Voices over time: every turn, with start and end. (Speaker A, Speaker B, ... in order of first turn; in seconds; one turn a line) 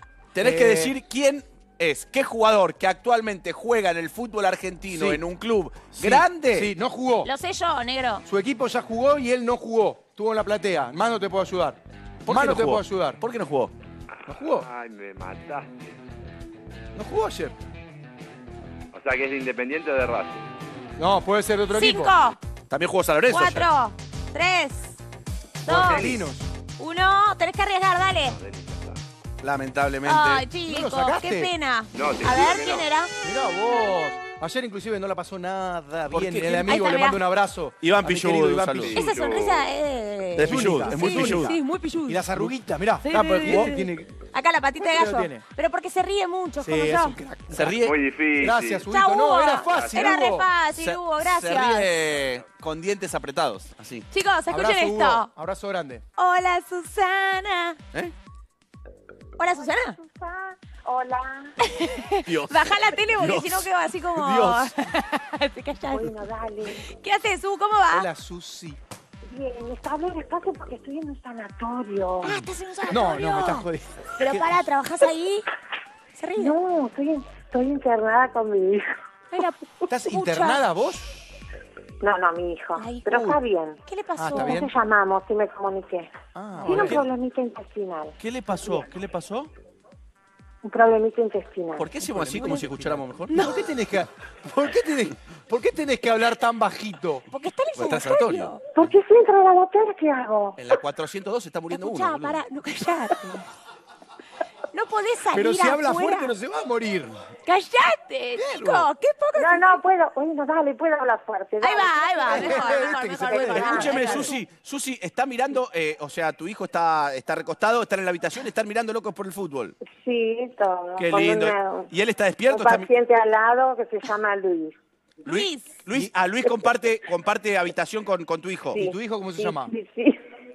Speaker A: 0.3-6.7
Speaker B: 0.4-0.9
Speaker B: 4.9-5.2
Speaker B: 5.9-7.3
Speaker C: 7.2-8.2
Speaker B: 8.2-13.2
Speaker A: 12.2-13.7
Speaker D: 14.2-16.0
Speaker B: 14.3-14.7
Speaker B: 16.9-17.6
Speaker D: 18.9-20.4
Speaker B: 21.0-22.1
Speaker C: 21.7-22.4
Speaker A: 22.7-23.7
Speaker C: 23.3-25.0
Speaker B: 25.6-26.5
Speaker C: 25.6-26.2
Speaker D: 25.8-26.2
Speaker C: 26.8-28.4
Speaker D: 28.2-29.0
Speaker A: 29.4-30.4
Speaker C: 30.1-33.1
Speaker B: 30.7-31.5
Speaker D: 31.9-32.9
Speaker B: 33.2-39.0
Speaker A: 36.1-37.1
Speaker C: 36.7-37.2
Speaker A: 37.8-39.0
Speaker D: 38.9-39.7
Speaker C: 38.9-42.3
Speaker A: 40.4-41.5
Speaker B: 40.4-41.6
Speaker B: 42.1-44.1
Speaker C: 43.0-47.2
Speaker B: 44.8-45.4
Speaker B: 46.6-47.9
Speaker A: 47.5-47.9
Speaker D: 47.8-48.9
Speaker B: 48.4-50.5
Speaker C: 48.9-51.9
Speaker D: 49.7-50.2
Speaker A: 50.7-54.1
Speaker C: 54.1-55.3
Speaker B: 54.5-56.0
Speaker C: 56.2-57.8
Speaker C: 59.4-60.0
Speaker E: 59.8-61.5
Speaker C: 61.6-66.1
Speaker A: 62.3-62.6
Speaker A: 63.2-64.7
Speaker E: 65.9-66.8
Speaker C: 66.7-68.1
Speaker B: 67.9-68.8
Speaker E: 69.3-72.3
Speaker C: 72.2-73.7
Speaker B: 72.9-74.5
Speaker C: 74.2-75.5
Speaker C: 76.2-76.5
Speaker E: 76.4-78.9
Speaker C: 79.3-80.6
Speaker B: 79.9-81.2
Speaker E: 82.0-83.8
Speaker C: 82.8-84.7
Speaker B: 84.2-84.7
Speaker E: 84.3-86.1
Speaker B: 86.3-87.0
Speaker A: 86.6-87.0
Speaker E: 86.6-88.2
Speaker A: 88.2-89.5
Speaker E: 90.6-91.9
Speaker A: 91.8-93.4
Speaker B: 92.2-97.2
Speaker C: 93.3-93.6
Speaker C: 97.3-98.7
Speaker A: 97.8-98.5
Speaker E: 98.8-100.6
Speaker A: 100.6-102.4
Speaker C: 101.7-103.5
Speaker C: 104.7-106.3
Speaker B: 105.3-107.2
Speaker C: 107.5-109.8
Speaker B: 108.4-108.9
Speaker E: 109.4-114.3
Speaker C: 111.6-114.4
Speaker B: 112.3-114.3
Speaker A: 113.7-119.8
Speaker E: 119.9-121.9
Speaker A: 121.0-122.9
Speaker E: 122.5-124.8
Speaker A: 125.2-128.8
Speaker C: 125.2-125.8
Speaker E: 128.7-130.2
Speaker B: 128.7-129.7